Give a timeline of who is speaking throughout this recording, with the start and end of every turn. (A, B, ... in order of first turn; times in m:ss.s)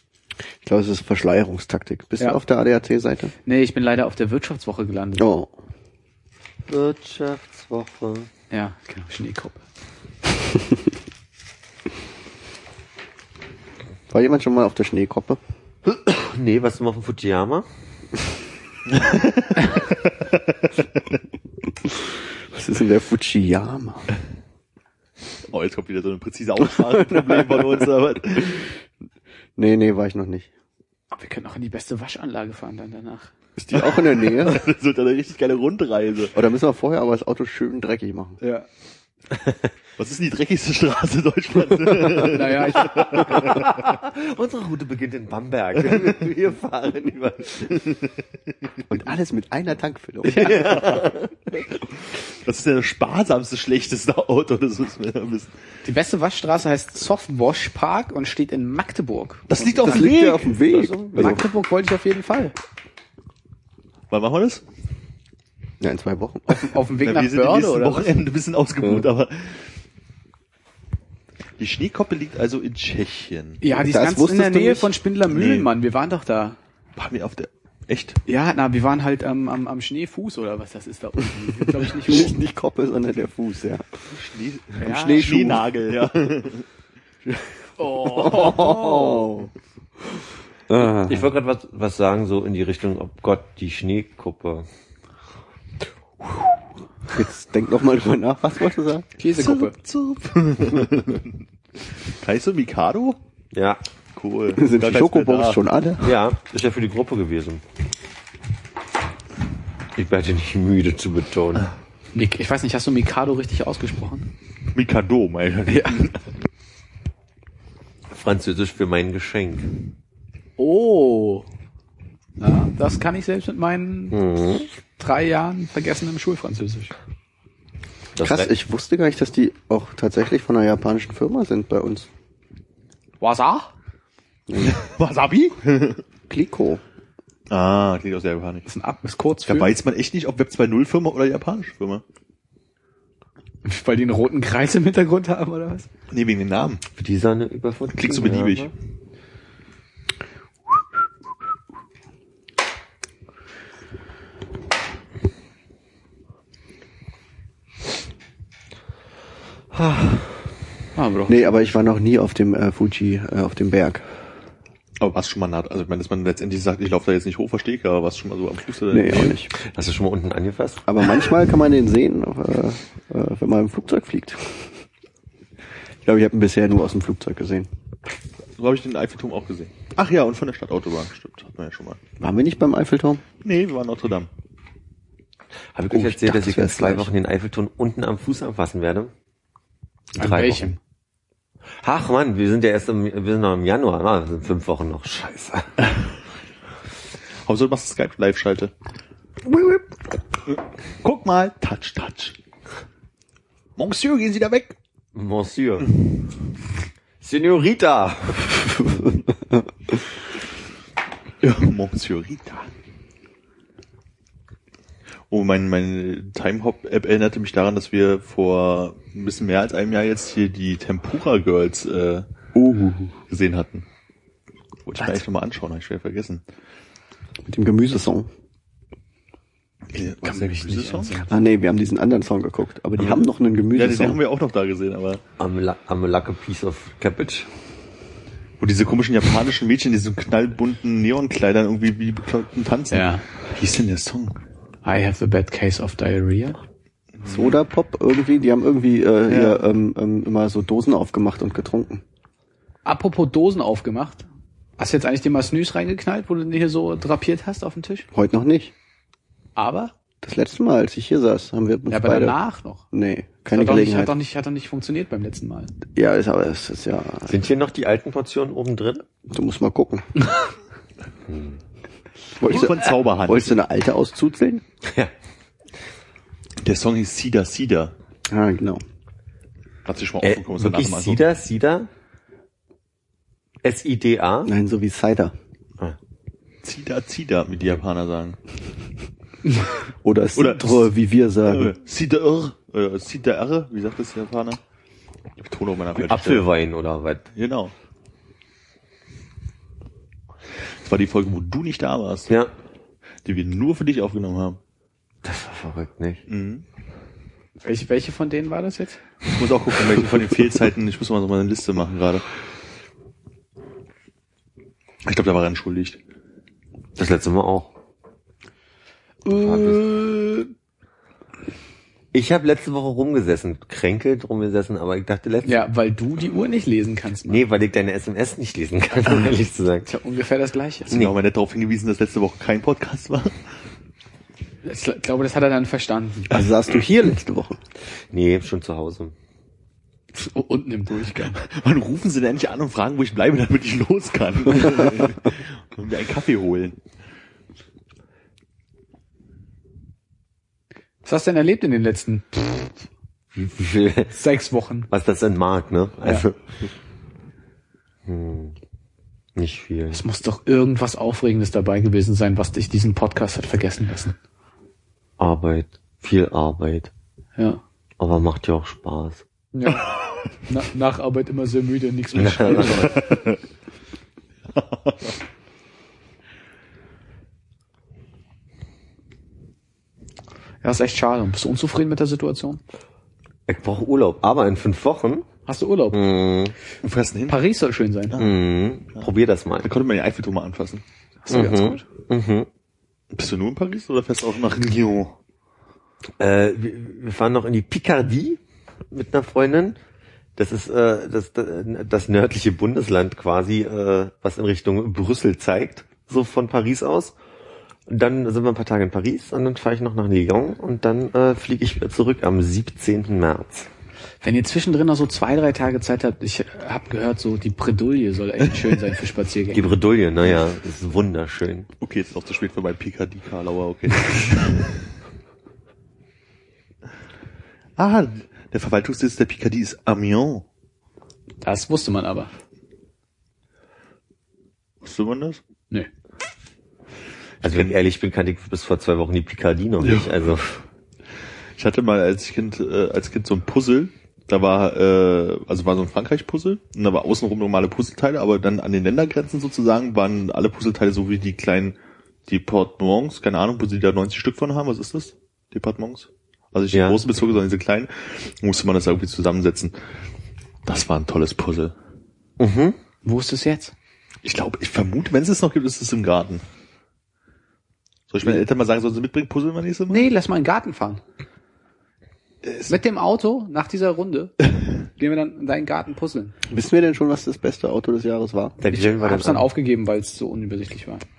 0:00.6-0:03.3 A
0:03.4-0:05.3 B
0:05.2-0:05.5 A
0:06.7-0:08.3 C
0:08.5-0:09.6 B
0:14.1-0:15.4 A
0:15.8-0:17.7 C
0:18.9-0:20.7 D
0:21.8-0:24.1 A
0:25.5-0:28.7 D
0:26.9-0:27.9 A
0:29.6-0:30.5 A
0:31.1-0:33.3 B
0:33.6-0:36.4 D
0:33.7-0:34.7 A
0:36.4-0:38.4 A
0:38.4-0:38.7 B
0:40.0-0:43.9 D
0:42.1-0:43.6 B
0:43.3-0:47.9 C
0:48.9-0:51.0 A
0:50.3-0:51.6 C
0:50.3-0:50.6 B
0:52.3-0:55.5 D
0:55.8-1:00.1 B
0:59.5-1:00.6 D
0:59.8-1:01.4 A
1:00.6-1:02.6 B
1:04.1-1:04.6 D
1:05.8-1:06.7 A
1:06.5-1:08.1 B
1:07.0-1:09.8 D
1:11.6-1:13.6 D
1:13.6-1:16.6 B
1:13.7-1:14.9 A
1:15.3-1:15.7 D
1:17.0-1:18.2 D
1:18.3-1:22.4 B
1:21.8-1:24.0 A
1:24.1-1:26.6 D
1:24.8-1:25.6 B
1:24.8-1:26.1 A
1:27.2-1:29.5 A
1:27.8-1:29.3 B
1:28.3-1:28.7 D
1:30.7-1:31.3 A
1:31.0-1:34.7 C
1:37.1-1:39.1 A
1:39.2-1:39.8 B
1:39.4-1:43.2 D
1:43.5-1:43.8 C
1:44.2-1:45.6 D
1:44.6-1:46.2 A
1:46.0-1:47.6 C
1:50.0-1:51.7 C
1:52.1-1:54.3 B
1:54.7-1:56.2 D
1:55.7-1:56.1 B
1:58.1-1:59.8 C
2:00.6-2:01.5 B
2:02.4-2:04.2 B
2:04.1-2:04.7 C
2:05.0-2:06.9 B
2:08.2-2:08.5 C
2:08.2-2:12.1 A
2:13.2-2:13.7 B
2:14.5-2:14.8 A
2:14.6-2:16.0 D
2:16.3-2:16.8 A
2:17.5-2:18.7 D
2:18.7-2:19.8 B
2:19.4-2:22.0 D
2:23.6-2:25.9 B
2:26.1-2:26.8 D
2:26.9-2:28.7 C
2:27.9-2:28.7 D
2:39.7-2:40.4 C
2:41.0-2:41.6 B
2:41.3-2:44.1 A
2:45.0-2:49.4 D
2:48.9-2:49.5 A
2:49.6-2:50.9 C
2:50.9-2:54.8 A
2:56.0-2:57.7 A
2:58.6-3:02.0 D
3:02.2-3:03.2 A
3:03.4-3:04.3 D
3:05.8-3:09.1 C
3:05.9-3:07.1 A
3:10.2-3:10.8 B
3:10.2-3:10.8 C
3:11.8-3:15.9 C
3:17.5-3:18.7 D
3:19.4-3:19.9 C
3:20.5-3:22.4 D
3:23.8-3:24.8 D
3:25.2-3:26.0 C
3:27.2-3:29.2 C
3:31.4-3:32.7 D
3:35.3-3:42.3 D
3:42.5-3:43.2 A
3:43.3-3:43.8 D
3:44.8-3:46.4 D
3:47.4-3:48.3 A
3:49.9-3:51.2 D
3:50.2-3:51.5 B
3:51.3-3:54.2 A
3:53.0-3:55.2 D
3:55.4-3:57.5 C
3:58.6-4:04.4 D
4:02.9-4:03.2 B
4:04.8-4:06.6 B
4:07.2-4:07.6 D
4:07.3-4:12.0 A
4:09.3-4:09.6 D
4:12.8-4:14.3 B
4:14.8-4:18.1 B
4:18.1-4:18.7 A
4:19.6-4:19.9 B
4:20.2-4:22.4 A
4:21.9-4:22.8 B
4:22.9-4:24.1 A
4:23.5-4:25.7 B
4:26.0-4:27.3 A
4:27.2-4:29.1 C
4:29.3-4:30.1 A
4:31.3-4:31.6 C
4:32.4-4:34.6 A
4:32.4-4:33.6 D
4:34.8-4:35.1 C
4:36.6-4:37.9 D
4:38.3-4:38.8 A
4:39.9-4:41.2 D
4:40.2-4:41.9 C
4:43.6-4:44.5 C
4:44.5-4:45.4 A
4:46.6-4:48.4 D
4:50.0-4:51.8 A
4:50.4-4:50.9 D
4:51.5-4:54.6 D
4:55.4-4:56.5 D
4:56.0-4:57.3 C
4:57.4-4:57.7 D
5:00.8-5:02.3 D
5:03.2-5:04.6 D
5:05.2-5:06.2 C
5:06.3-5:06.6 D
5:07.6-5:09.0 B
5:09.3-5:12.3 D
5:15.0-5:16.0 D
5:17.0-5:17.7 C
5:19.3-5:20.5 B
5:19.3-5:19.8 C
5:22.1-5:25.6 C
5:25.4-5:27.4 B
5:27.3-5:29.9 C
5:29.9-5:31.0 B
5:30.9-5:31.2 C
5:30.9-5:33.4 D
5:34.6-5:36.4 B
5:36.3-5:37.6 A
5:38.1-5:39.2 C
5:40.1-5:41.4 B
5:41.2-5:46.8 D
5:51.0-5:52.9 B
5:53.4-5:54.1 C
5:54.1-5:54.9 B
5:54.9-5:56.5 C
5:58.1-5:58.6 C
5:59.4-6:00.0 C
5:59.9-6:04.2 B
6:05.2-6:06.9 C
6:07.4-6:07.6 B
6:08.0-6:09.2 C
6:09.5-6:09.9 B
6:10.4-6:13.2 B
6:12.2-6:13.0 C
6:12.9-6:13.4 D
6:14.6-6:15.2 D
6:20.6-6:22.6 B
6:23.5-6:25.3 C
6:25.5-6:26.0 B
6:25.9-6:26.6 C
6:26.8-6:27.4 D
6:27.3-6:28.2 B
6:28.1-6:28.4 D
6:28.2-6:29.7 C
6:29.6-6:30.8 D
6:31.2-6:31.8 B
6:31.3-6:32.5 C
6:33.1-6:35.2 D
6:36.2-6:38.4 C
6:38.9-6:39.8 C
6:40.4-6:47.2 C
6:47.9-6:53.7 C
6:54.2-6:59.7 B
6:59.5-7:01.7 C
7:00.2-7:00.4 D
7:01.8-7:04.9 D
7:07.8-7:10.4 D
7:11.4-7:12.3 B
7:14.8-7:15.4 D
7:17.4-7:17.8 D
7:17.4-7:20.6 C
7:19.8-7:20.2 D
7:21.6-7:31.8 D
7:32.3-7:39.8 D
7:36.7-7:37.0 C
7:40.7-7:41.7 D
7:42.4-7:42.8 C
7:43.0-7:43.7 B
7:44.2-7:46.4 D
7:48.1-7:50.1 D
7:49.9-7:51.0 B
7:52.4-7:52.8 D
7:52.7-7:54.3 B
7:55.0-7:56.3 B
7:56.5-7:58.6 A
7:58.6-7:59.5 C
7:58.7-8:01.0 B